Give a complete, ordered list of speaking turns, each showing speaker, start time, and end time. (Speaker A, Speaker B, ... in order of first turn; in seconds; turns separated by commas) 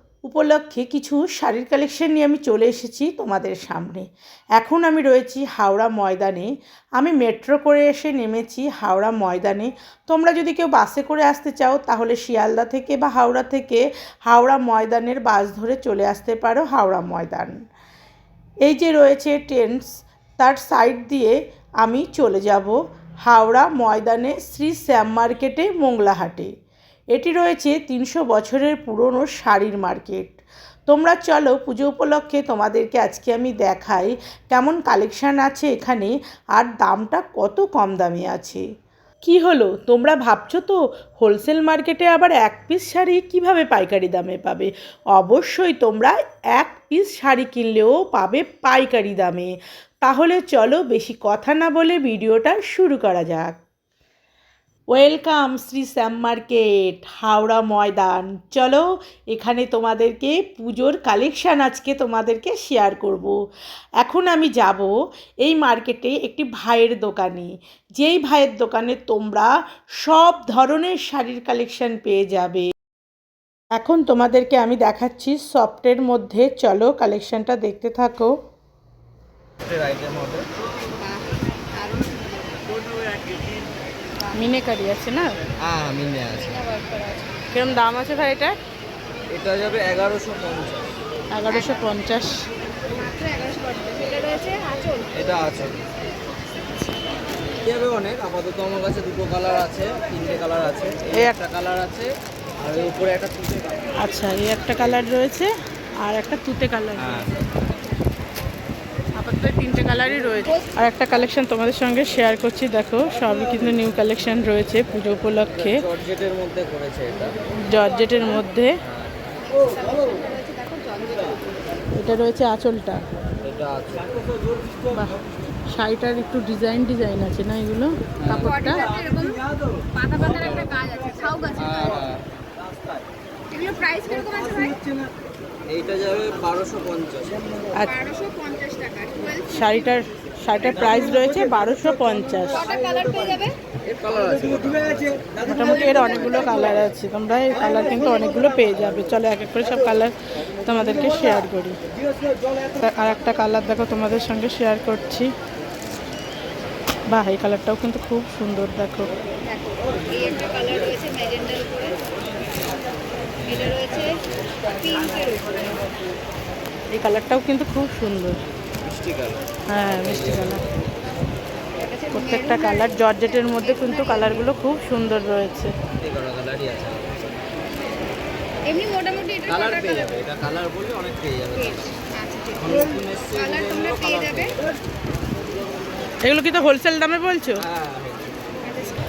Speaker A: 0.2-17.6, Speaker A: 18.6-26.5, Speaker A: 27.1-38.6, Speaker A: 39.2-53.6, Speaker A: 54.9-63.4, Speaker A: 64.0-72.7, Speaker A: 73.7-78.3, Speaker B: 79.6-80.5, Speaker C: 81.0-83.2, Speaker A: 84.3-85.3, Speaker B: 85.6-86.5, Speaker C: 86.3-87.3, Speaker A: 87.5-88.5, Speaker B: 89.3-91.0, Speaker A: 91.3-92.4, Speaker C: 91.5-92.0, Speaker C: 92.9-95.1, Speaker B: 95.1-95.8, Speaker B: 97.6-103.7, Speaker A: 104.0-105.5, Speaker A: 106.0-107.2, Speaker B: 107.0-107.4, Speaker A: 109.2-115.8, Speaker C: 110.5-110.7, Speaker B: 115.5-117.4, Speaker A: 117.7-118.8, Speaker B: 118.8-119.2, Speaker C: 119.5-121.6, Speaker A: 122.0-123.0, Speaker B: 123.4-124.3, Speaker A: 125.7-128.8, Speaker B: 128.2-128.5, Speaker C: 128.3-132.1, Speaker B: 131.6-132.5, Speaker C: 133.5-134.8, Speaker B: 135.7-137.5, Speaker C: 137.8-140.0, Speaker A: 139.5-142.6, Speaker C: 142.5-143.6, Speaker B: 143.8-147.0, Speaker A: 145.5-150.1, Speaker C: 145.5-146.9, Speaker A: 150.6-151.8, Speaker A: 152.8-155.3, Speaker A: 157.1-159.1, Speaker C: 159.4-162.0, Speaker B: 163.4-163.8, Speaker C: 163.5-164.1, Speaker C: 164.7-165.9, Speaker A: 166.9-168.4, Speaker B: 168.8-170.9, Speaker A: 169.7-170.6, Speaker C: 171.8-174.5, Speaker A: 172.1-175.7, Speaker B: 176.0-177.2, Speaker C: 178.7-180.2, Speaker B: 179.5-181.8, Speaker C: 181.5-184.6, Speaker B: 182.6-184.7, Speaker A: 186.2-187.6, Speaker B: 187.6-188.4, Speaker C: 188.6-189.0